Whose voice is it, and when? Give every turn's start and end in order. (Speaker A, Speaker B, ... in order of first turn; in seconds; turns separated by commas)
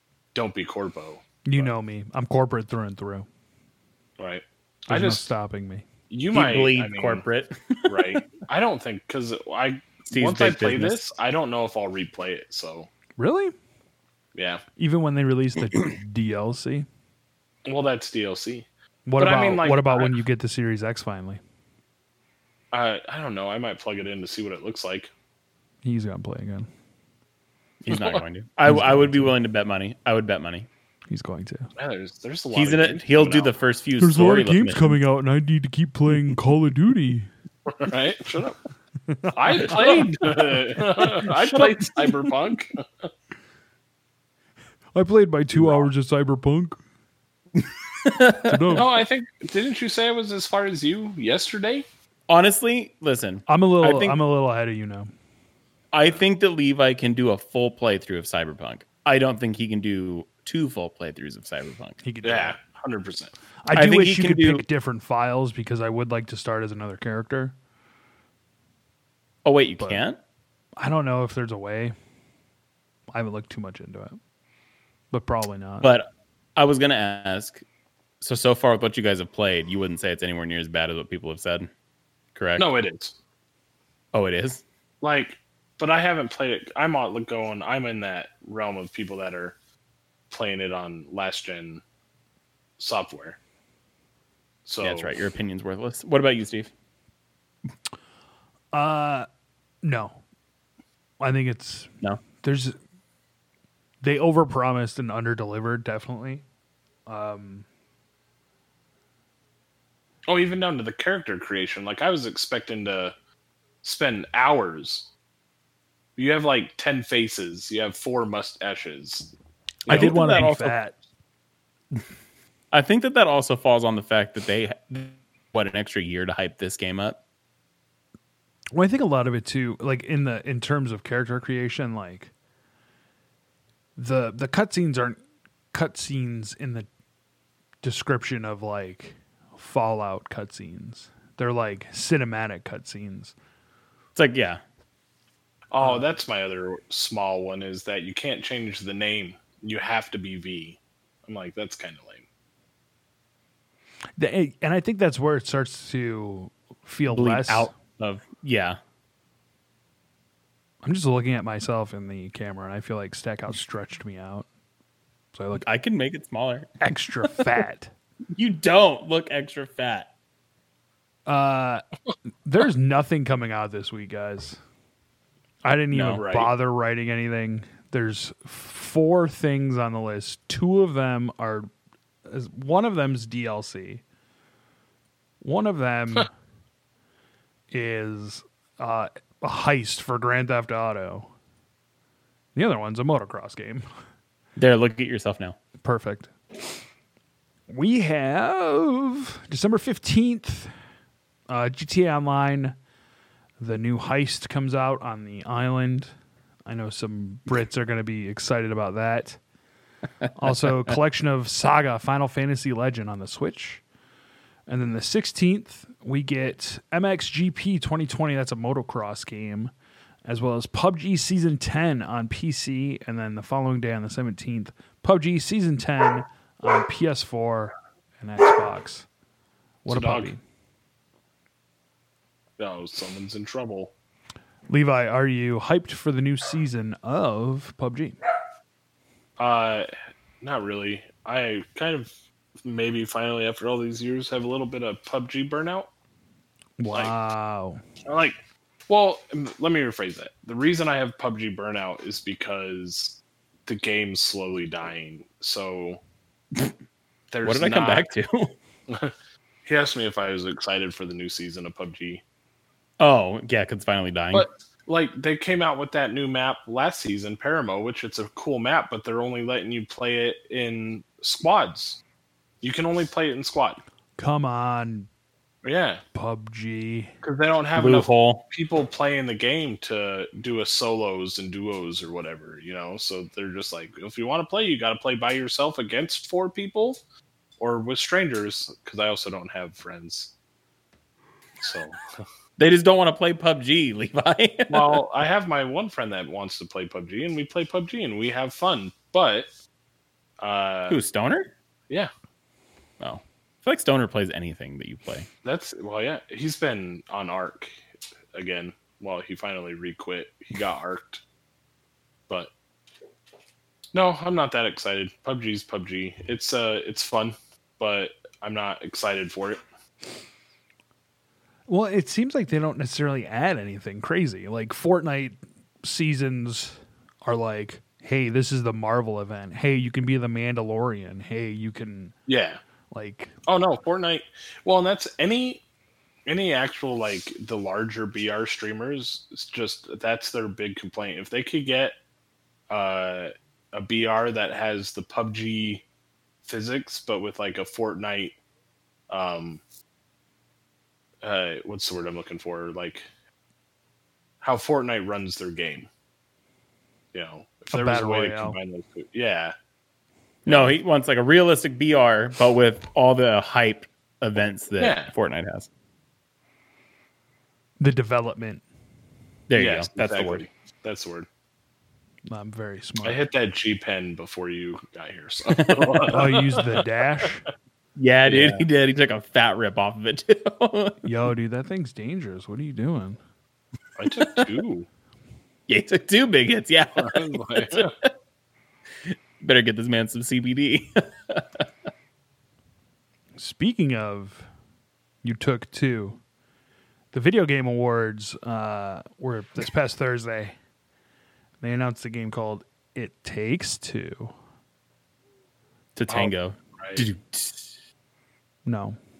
Speaker A: 0.3-1.7, Speaker B: 1.4-3.3, Speaker A: 4.2-5.2, Speaker B: 4.9-5.8, Speaker A: 6.1-7.2, Speaker C: 6.3-8.2, Speaker A: 7.8-12.9, Speaker C: 10.1-11.0, Speaker B: 13.2-13.5, Speaker A: 14.3-14.6, Speaker B: 14.8-16.9, Speaker A: 17.7-18.7, Speaker B: 19.1-21.4, Speaker A: 19.2-20.2, Speaker A: 22.7-25.1, Speaker B: 25.8-26.7, Speaker C: 27.8-30.7, Speaker A: 27.9-28.2, Speaker B: 28.7-29.3, Speaker B: 31.1-31.7, Speaker A: 31.8-33.5, Speaker C: 32.5-35.0, Speaker B: 34.0-37.3, Speaker A: 37.7-38.6, Speaker B: 39.1-40.6, Speaker A: 39.4-42.8, Speaker B: 45.0-46.8, Speaker A: 45.5-45.9, Speaker C: 48.0-48.9, Speaker B: 48.4-49.0, Speaker A: 48.7-51.9, Speaker C: 52.3-54.2, Speaker B: 53.5-55.1, Speaker C: 55.9-62.0, Speaker B: 62.0-62.6, Speaker A: 62.2-63.3, Speaker B: 63.6-67.5, Speaker C: 63.7-64.7, Speaker C: 69.4-70.2, Speaker B: 70.8-72.0, Speaker B: 73.1-74.2, Speaker B: 75.1-75.9, Speaker C: 75.8-77.6, Speaker C: 78.2-81.7, Speaker C: 82.3-82.7, Speaker A: 82.6-83.1, Speaker C: 84.1-84.6, Speaker A: 85.0-89.6, Speaker A: 90.3-91.8, Speaker A: 92.8-93.4, Speaker A: 94.7-95.1, Speaker C: 94.8-96.7, Speaker B: 98.7-99.3, Speaker B: 99.8-100.2, Speaker B: 101.2-102.8, Speaker B: 104.0-106.4, Speaker B: 107.1-107.7, Speaker A: 110.3-113.1, Speaker A: 113.8-115.1, Speaker A: 116.2-119.3, Speaker A: 119.9-120.4, Speaker B: 119.9-121.0, Speaker C: 119.9-120.8, Speaker C: 122.7-127.2, Speaker B: 128.7-132.3, Speaker B: 134.0-135.2, Speaker B: 135.7-136.9, Speaker B: 137.8-143.3, Speaker C: 144.2-144.6, Speaker A: 145.7-152.2, Speaker B: 145.8-146.1, Speaker B: 154.2-157.7, Speaker C: 157.1-158.8, Speaker B: 160.8-164.5, Speaker B: 165.3-165.6, Speaker C: 165.6-166.7, Speaker B: 166.8-167.9, Speaker C: 168.3-170.1, Speaker B: 171.3-171.8, Speaker B: 172.4-174.6, Speaker B: 175.6-181.7, Speaker A: 175.9-176.5, Speaker B: 182.3-184.0, Speaker B: 185.4-186.3, Speaker B: 187.7-191.3, Speaker B: 192.6-193.8, Speaker C: 194.6-195.6, Speaker B: 195.8-196.3, Speaker B: 197.7-200.7, Speaker B: 201.5-202.8, Speaker B: 203.6-206.1, Speaker B: 206.7-209.4, Speaker B: 210.3-213.8, Speaker B: 214.7-219.7, Speaker B: 220.2-229.1, Speaker B: 229.8-230.4, Speaker A: 229.9-230.3, Speaker A: 232.6-233.9, Speaker B: 234.7-238.2, Speaker A: 239.4-242.1, Speaker A: 242.6-245.9, Speaker B: 246.8-247.8, Speaker A: 248.1-248.4, Speaker A: 248.9-256.0, Speaker A: 257.3-258.1, Speaker C: 257.4-258.6, Speaker A: 258.9-259.1, Speaker A: 259.7-262.2, Speaker C: 263.0-264.5, Speaker A: 264.3-272.0, Speaker A: 272.6-273.8, Speaker B: 274.2-275.1, Speaker A: 275.6-276.0, Speaker B: 276.1-277.1, Speaker A: 277.2-287.0, Speaker C: 277.8-278.4, Speaker A: 287.6-290.3, Speaker A: 291.6-292.0, Speaker C: 292.6-295.0, Speaker A: 294.7-299.5, Speaker A: 300.4-301.0, Speaker C: 300.9-301.5, Speaker C: 303.0-305.3, Speaker A: 305.4-307.8, Speaker A: 308.3-311.2, Speaker A: 313.9-319.6, Speaker B: 321.7-332.1, Speaker A: 332.3-332.6, Speaker B: 332.9-333.3, Speaker A: 333.5-335.6, Speaker A: 336.3-341.9, Speaker A: 342.7-345.8, Speaker A: 346.4-348.4, Speaker A: 349.1-349.6, Speaker A: 351.2-353.1, Speaker A: 354.4-355.9, Speaker A: 357.1-359.5, Speaker B: 357.7-358.6, Speaker A: 360.5-360.8, Speaker C: 360.5-365.7, Speaker A: 364.8-365.1, Speaker B: 367.8-368.6, Speaker C: 369.5-370.4, Speaker A: 369.6-371.3, Speaker B: 372.3-373.2, Speaker A: 373.0-376.8, Speaker C: 375.5-376.1, Speaker B: 376.1-377.4, Speaker C: 378.0-381.0, Speaker A: 378.3-378.7, Speaker B: 381.0-383.2, Speaker A: 384.0-384.9, Speaker C: 385.7-388.1, Speaker A: 387.0-387.9, Speaker C: 389.0-391.7, Speaker B: 393.4-394.5, Speaker B: 395.2-396.2, Speaker B: 397.1-400.6, Speaker B: 401.6-404.3, Speaker C: 405.9-407.7, Speaker A: 406.1-407.1, Speaker B: 408.6-409.0